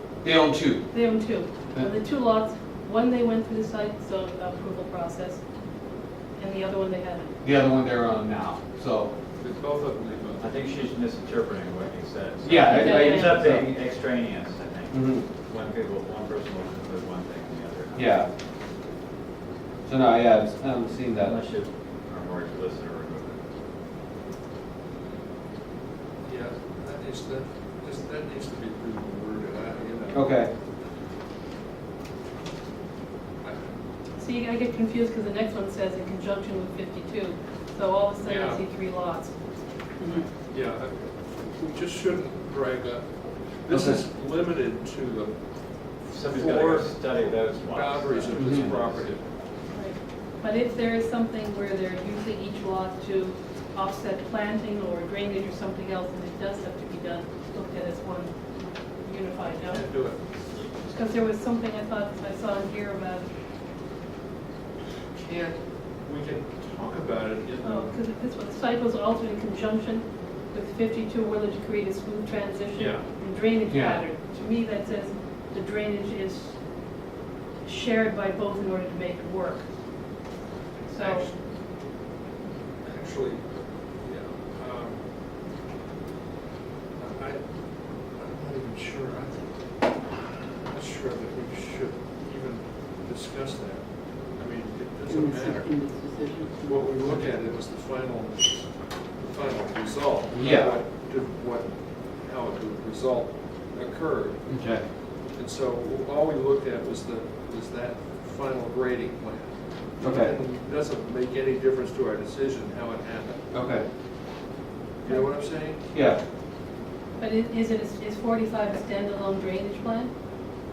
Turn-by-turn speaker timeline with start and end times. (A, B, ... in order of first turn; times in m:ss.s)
0:00.2-0:01.0 A
0:00.9-0:05.4 B
0:06.4-0:07.3 B
0:07.4-0:09.1 A
0:09.4-0:10.5 C
0:10.4-0:18.3 D
0:12.4-0:13.8 A
0:12.7-0:13.4 B
0:14.9-0:15.3 A
0:18.0-0:18.3 A
0:19.9-0:21.4 A
0:21.2-0:23.4 D
0:26.2-0:30.4 C
0:30.1-0:30.5 A
0:34.2-0:39.3 B
0:38.2-0:38.6 C
0:40.5-0:45.4 C
0:43.7-0:44.0 A
0:46.0-0:49.2 C
0:46.1-0:49.2 D
0:48.4-0:48.7 A
0:49.7-0:58.3 B
0:59.0-0:59.8 B
0:59.6-1:00.2 C
1:00.9-1:03.3 B
1:05.2-1:08.0 C
1:07.6-1:16.6 B
1:12.8-1:13.0 C
1:13.7-1:14.0 A
1:17.6-1:19.6 B
1:20.9-1:21.3 B
1:21.0-1:21.3 C
1:22.8-1:23.5 C
1:24.0-1:25.0 C
1:27.0-1:27.4 C
1:28.1-1:29.6 C
1:30.7-1:35.9 C
1:35.1-1:37.2 E
1:36.6-1:53.5 C
1:40.3-1:40.8 A
1:44.5-1:44.9 A
1:50.0-1:50.4 A
1:53.5-1:53.9 A
1:55.0-1:55.8 C
1:55.1-1:55.3 B
1:55.9-1:56.2 A
1:57.2-2:00.1 B